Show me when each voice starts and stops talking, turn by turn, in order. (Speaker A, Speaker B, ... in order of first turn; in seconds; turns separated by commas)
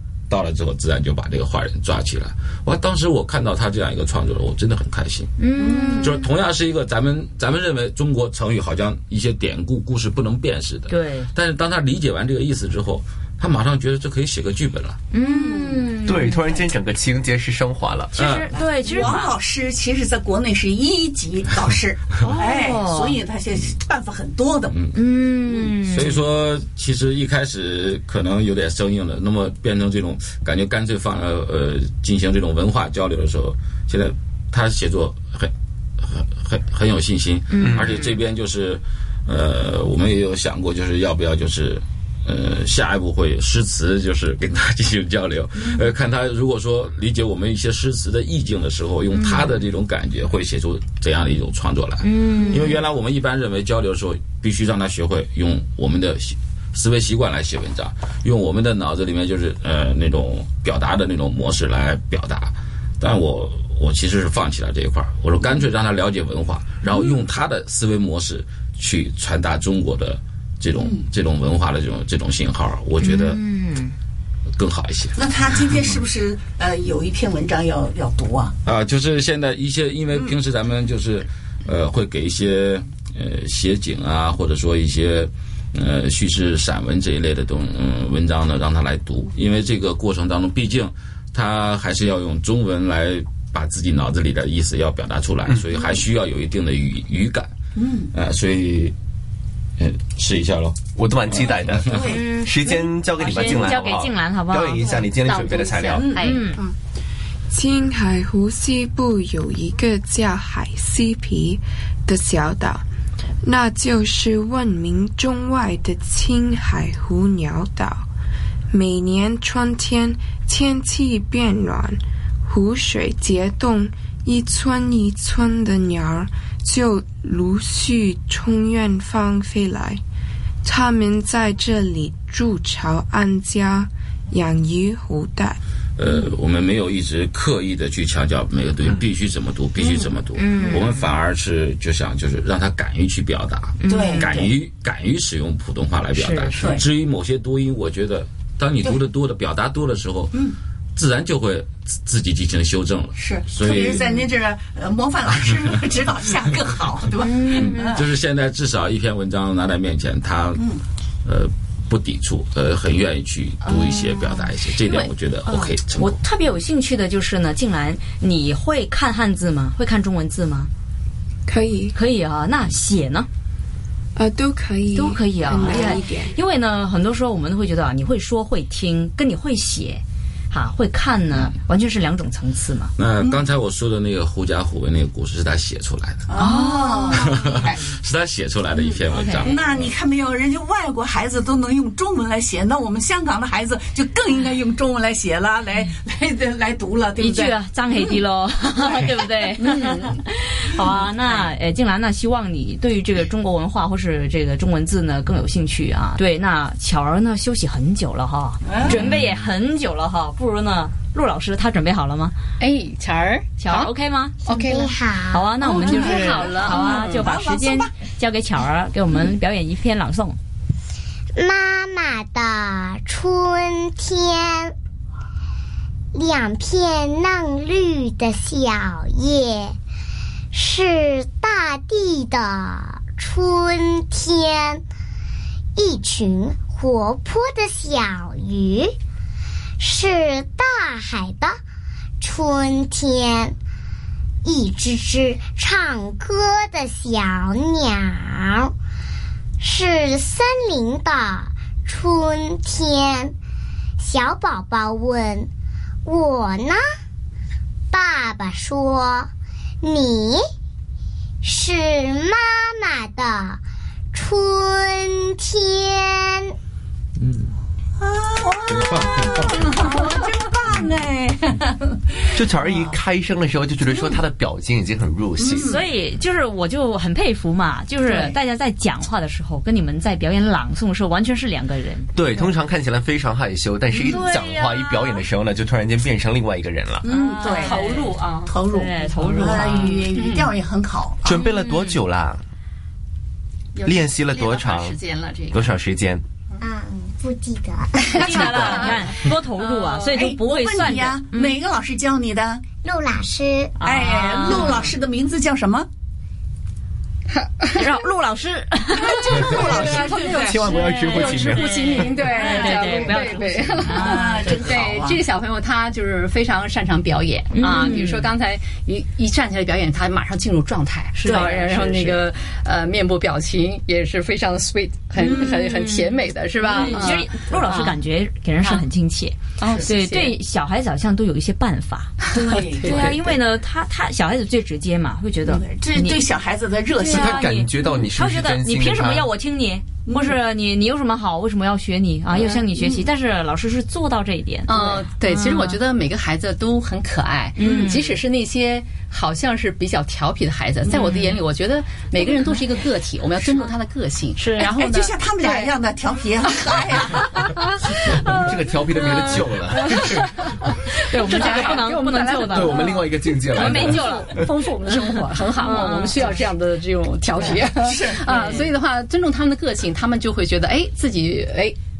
Speaker A: 0.3-5.3, Speaker B: 5.4-6.2, Speaker C: 5.6-6.1, Speaker A: 5.9-15.0, Speaker B: 10.9-11.3, Speaker B: 15.1-16.6, Speaker C: 15.2-16.0, Speaker D: 16.1-18.1, Speaker B: 18.1-19.4, Speaker A: 18.1-18.6, Speaker C: 18.6-24.8, Speaker B: 22.2-23.2, Speaker A: 24.7-24.9, Speaker B: 24.9-26.2, Speaker C: 25.5-25.7, Speaker A: 25.7-73.4, Speaker B: 37.5-38.1, Speaker D: 37.6-38.0, Speaker B: 49.1-49.5, Speaker B: 52.0-52.8, Speaker C: 70.8-71.0, Speaker B: 73.0-73.9, Speaker A: 74.5-75.9, Speaker C: 75.2-78.5, Speaker A: 78.6-97.5, Speaker C: 97.8-98.1, Speaker A: 98.1-98.9, Speaker A: 99.8-100.8, Speaker D: 101.0-106.1, Speaker C: 101.3-102.4, Speaker A: 101.5-102.1, Speaker B: 102.1-105.0, Speaker E: 105.2-106.5, Speaker C: 105.9-106.2, Speaker B: 106.2-106.6, Speaker F: 107.5-112.8, Speaker F: 113.4-118.0, Speaker F: 118.7-130.0, Speaker F: 130.6-135.6, Speaker A: 136.0-150.4, Speaker C: 139.8-140.1, Speaker B: 140.3-141.0, Speaker B: 143.8-144.5, Speaker C: 143.8-144.4, Speaker B: 146.1-146.8, Speaker A: 150.9-154.2, Speaker C: 153.2-158.1, Speaker B: 157.2-158.0, Speaker A: 157.5-160.7, Speaker C: 160.6-160.8, Speaker A: 161.2-166.2, Speaker B: 163.6-170.7, Speaker F: 171.5-171.9, Speaker B: 171.9-173.3, Speaker F: 174.2-176.3, Speaker B: 174.9-182.9, Speaker A: 183.0-186.3, Speaker C: 186.3-187.9, Speaker B: 186.4-187.3, Speaker A: 187.1-190.0, Speaker C: 188.7-198.1, Speaker B: 189.1-189.5, Speaker B: 197.2-212.3, Speaker C: 198.8-199.3, Speaker E: 199.6-200.2, Speaker C: 200.7-201.5, Speaker C: 208.7-208.9, Speaker E: 212.6-213.9, Speaker B: 213.6-214.4, Speaker E: 214.4-214.9, Speaker G: 214.4-215.5, Speaker B: 215.3-220.4, Speaker E: 215.6-217.3, Speaker C: 215.7-217.9, Speaker G: 216.2-216.4, Speaker G: 221.4-224.7, Speaker G: 226.1-229.8, Speaker G: 230.5-234.8, Speaker G: 235.8-238.9, Speaker G: 239.8-241.6, Speaker G: 242.2-243.6, Speaker G: 244.4-248.7, Speaker G: 249.6-253.3, Speaker G: 254.0-255.5, Speaker G: 256.0-256.8, Speaker G: 257.9-259.3, Speaker G: 259.8-260.4, Speaker G: 261.4-263.6, Speaker G: 264.1-266.5, Speaker A: 267.2-267.5, Speaker C: 268.0-272.9, Speaker A: 268.6-269.8, Speaker D: 272.3-275.8, Speaker C: 273.9-274.2, Speaker C: 275.4-275.8, Speaker B: 275.6-282.1, Speaker C: 278.0-278.4, Speaker D: 282.1-287.1, Speaker B: 284.0-285.2, Speaker C: 287.0-287.8, Speaker B: 287.0-290.1, Speaker E: 287.4-288.5, Speaker C: 288.4-291.4, Speaker E: 290.1-290.6, Speaker D: 291.2-292.4, Speaker B: 291.3-292.0, Speaker E: 293.7-295.8, Speaker D: 293.8-295.0, Speaker D: 295.5-296.2, Speaker G: 296.6-298.8, Speaker E: 298.1-299.1, Speaker B: 298.2-301.6, Speaker E: 299.6-300.2, Speaker C: 300.1-302.6, Speaker G: 302.8-303.7, Speaker B: 303.8-304.9, Speaker C: 303.8-305.9, Speaker E: 307.3-307.9, Speaker B: 307.7-310.0, Speaker E: 309.0-327.9, Speaker C: 309.1-310.9, Speaker D: 309.4-312.1, Speaker B: 310.7-314.6, Speaker C: 312.3-313.4, Speaker C: 314.0-315.2, Speaker B: 317.5-318.3, Speaker B: 321.1-321.9, Speaker C: 321.2-322.2, Speaker B: 325.2-336.2, Speaker E: 329.6-330.4, Speaker E: 332.2-333.1, Speaker C: 332.4-333.3, Speaker C: 335.4-337.4, Speaker B: 336.9-345.8, Speaker D: 337.1-339.3, Speaker C: 340.1-340.4, Speaker C: 342.3-343.1, Speaker E: 344.6-355.8, Speaker B: 347.6-348.2, Speaker B: 350.9-351.4, Speaker B: 354.4-355.7, Speaker C: 354.6-357.2, Speaker E: 356.5-371.8, Speaker D: 358.1-360.4, Speaker B: 361.0-363.0, Speaker D: 362.4-364.3, Speaker B: 363.5-364.3, Speaker B: 365.6-366.4, Speaker C: 367.4-368.7, Speaker B: 368.3-368.7